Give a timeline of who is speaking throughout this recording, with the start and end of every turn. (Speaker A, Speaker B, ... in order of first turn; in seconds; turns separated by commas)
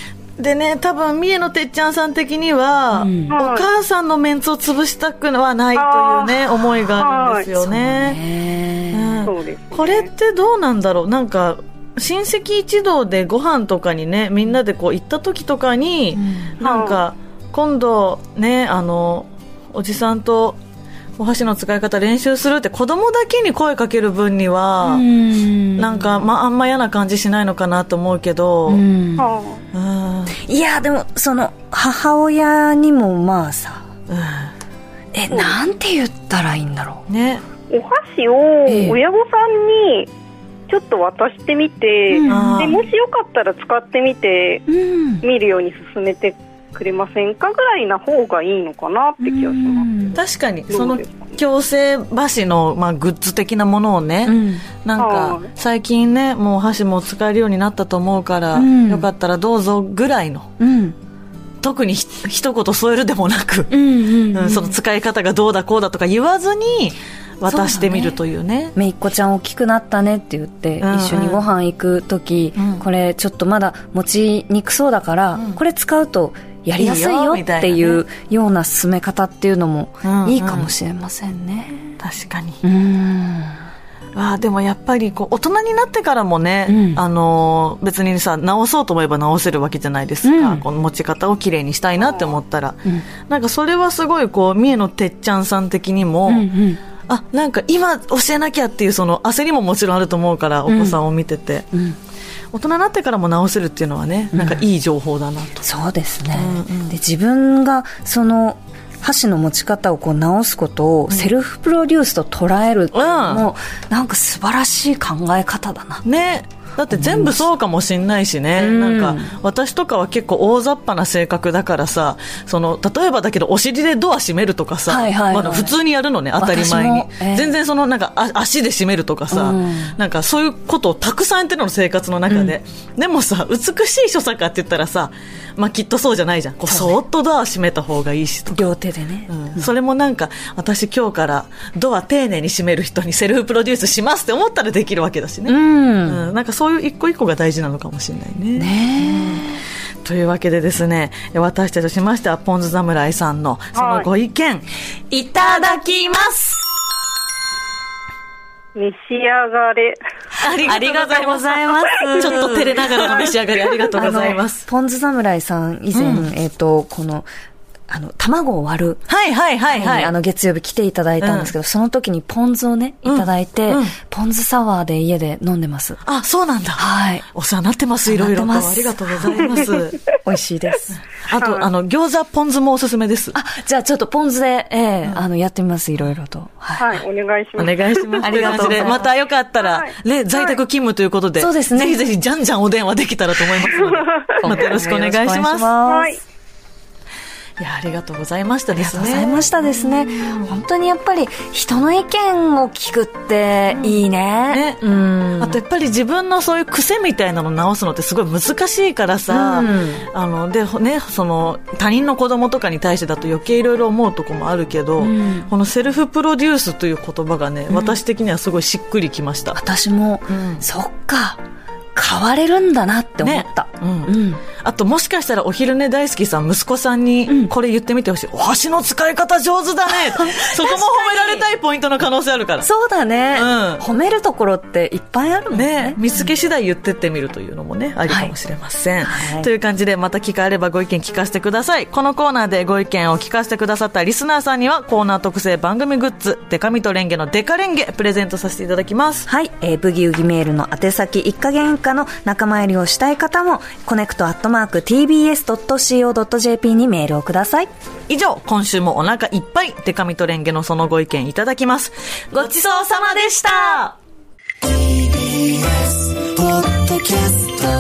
Speaker A: 0.4-8.2, Speaker B: 3.0-3.3, Speaker C: 3.3-3.7, Speaker C: 5.8-6.5, Speaker C: 7.0-7.5, Speaker B: 7.6-9.3, Speaker A: 8.9-20.6, Speaker C: 9.2-10.1, Speaker B: 16.2-16.6, Speaker C: 16.6-17.0, Speaker A: 21.2-25.1, Speaker B: 24.8-26.1, Speaker A: 25.8-28.8, Speaker B: 28.7-29.3, Speaker C: 29.2-29.6, Speaker A: 29.7-30.4, Speaker B: 30.4-33.9, Speaker A: 34.1-34.5, Speaker B: 35.1-37.0, Speaker C: 35.3-35.6, Speaker A: 37.1-37.4, Speaker C: 37.7-40.1, Speaker B: 38.7-39.0, Speaker C: 40.7-44.6, Speaker B: 42.1-42.7, Speaker A: 42.3-42.8, Speaker B: 44.7-45.2, Speaker C: 45.2-49.9, Speaker B: 49.2-50.2, Speaker A: 50.2-60.5, Speaker C: 50.7-51.3, Speaker B: 54.3-54.6, Speaker C: 55.0-55.5, Speaker B: 58.5-59.1, Speaker B: 60.6-61.0, Speaker A: 61.6-63.8, Speaker B: 63.7-64.8, Speaker A: 64.3-68.7, Speaker B: 67.5-68.2, Speaker B: 68.8-82.0, Speaker A: 70.8-71.4, Speaker A: 72.6-72.8, Speaker A: 75.3-75.6, Speaker A: 76.8-78.0, Speaker A: 80.0-80.7, Speaker A: 82.0-82.6, Speaker B: 82.6-83.7, Speaker A: 84.2-96.5, Speaker B: 86.7-87.0, Speaker B: 90.2-90.6, Speaker B: 96.3-96.8, Speaker A: 97.1-101.7, Speaker B: 100.7-101.0, Speaker B: 101.7-102.0, Speaker A: 102.5-105.7, Speaker B: 104.3-104.7, Speaker B: 105.6-116.0, Speaker A: 106.3-107.0, Speaker A: 112.9-113.5, Speaker A: 116.0-138.7, Speaker B: 116.9-117.4, Speaker B: 118.6-119.3, Speaker B: 124.9-125.8, Speaker B: 126.4-127.5, Speaker B: 129.3-130.0, Speaker B: 132.3-132.6, Speaker B: 136.7-137.0, Speaker B: 138.5-139.7, Speaker A: 139.3-149.5, Speaker B: 145.5-146.2, Speaker B: 148.6-149.6, Speaker A: 150.0-154.7, Speaker C: 153.8-154.1, Speaker B: 155.1-156.7, Speaker C: 158.8-160.0, Speaker A: 160.4-164.7, Speaker B: 160.6-163.3, Speaker C: 161.9-162.2, Speaker B: 163.9-167.3, Speaker A: 165.9-166.3, Speaker B: 167.9-169.0, Speaker A: 169.1-170.1, Speaker B: 169.7-176.0, Speaker A: 171.2-171.5, Speaker A: 173.1-173.9, Speaker A: 176.1-180.0, Speaker B: 176.8-177.3, Speaker B: 178.1-179.6, Speaker B: 180.2-181.0, Speaker A: 181.2-183.4, Speaker C: 181.4-181.7, Speaker B: 183.3-187.0, Speaker C: 186.8-188.9, Speaker A: 187.6-195.7, Speaker B: 188.2-189.1, Speaker C: 189.6-190.5, Speaker B: 191.4-192.1, Speaker C: 193.8-194.4, Speaker B: 194.4-196.2, Speaker C: 195.9-196.2, Speaker A: 197.6-200.6, Speaker B: 198.8-205.6, Speaker A: 203.7-204.0, Speaker A: 204.5-204.8, Speaker A: 205.4-219.6, Speaker B: 209.3-210.1, Speaker B: 215.0-215.5, Speaker B: 217.7-218.0, Speaker B: 219.5-221.4, Speaker A: 220.3-220.6, Speaker B: 221.9-224.4, Speaker A: 223.2-232.7, Speaker B: 229.9-231.5, Speaker B: 232.6-236.3, Speaker A: 233.3-233.8, Speaker A: 235.5-249.3, Speaker B: 239.0-239.5, Speaker B: 249.3-257.7, Speaker A: 258.1-263.9, Speaker B: 262.3-263.9, Speaker A: 266.2-267.7